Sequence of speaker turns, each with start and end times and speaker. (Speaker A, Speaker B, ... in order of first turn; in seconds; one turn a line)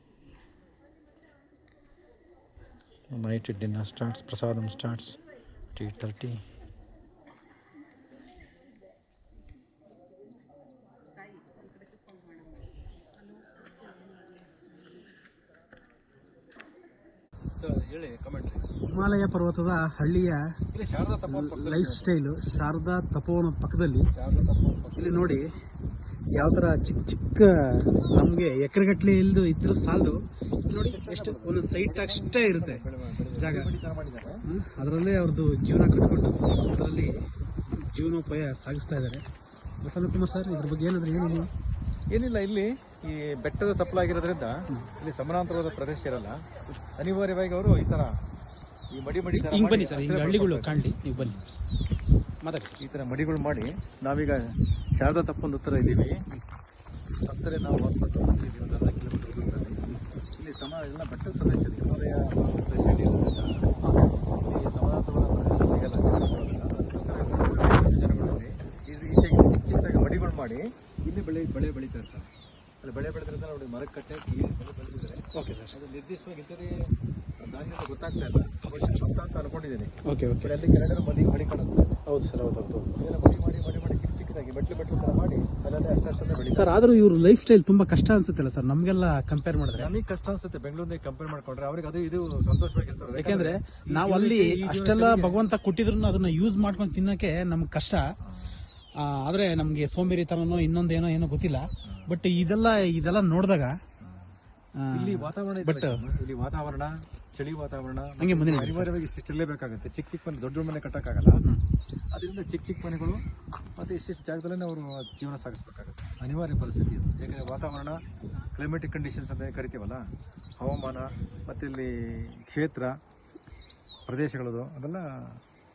Speaker A: 3.1-5.2
Speaker A: 5.7-6.4
Speaker A: 17.6-18.7
Speaker B: 18.9-20.5
Speaker A: 20.7-22.1
Speaker B: 21.3-24.1
Speaker A: 24.1-25.4
Speaker B: 25.0-25.5
Speaker B: 26.4-33.7
Speaker A: 30.7-34.3
Speaker B: 34.5-39.2
Speaker B: 39.8-41.5
Speaker A: 42.1-46.4
Speaker A: 47.0-48.1
Speaker A: 48.9-51.4
Speaker B: 49.3-51.4
Speaker B: 52.4-52.7
Speaker A: 52.8-56.2
Speaker A: 57.2-59.8
Speaker A: 60.4-63.7
Speaker A: 64.4-72.3
Speaker A: 72.8-76.8
Speaker B: 75.3-75.8
Speaker A: 77.4-79.9
Speaker B: 80.0-80.5
Speaker A: 80.4-82.0
Speaker B: 82.1-83.0
Speaker A: 83.0-86.8
Speaker B: 86.5-89.9
Speaker A: 89.7-95.4
Speaker B: 93.1-98.0
Speaker B: 99.0-103.8
Speaker A: 104.0-104.3
Speaker B: 104.8-106.0
Speaker A: 104.9-111.4
Speaker B: 108.2-108.9
Speaker A: 112.1-113.2
Speaker A: 113.8-118.0
Speaker A: 118.5-120.0
Speaker A: 120.6-122.9
Speaker A: 124.1-125.4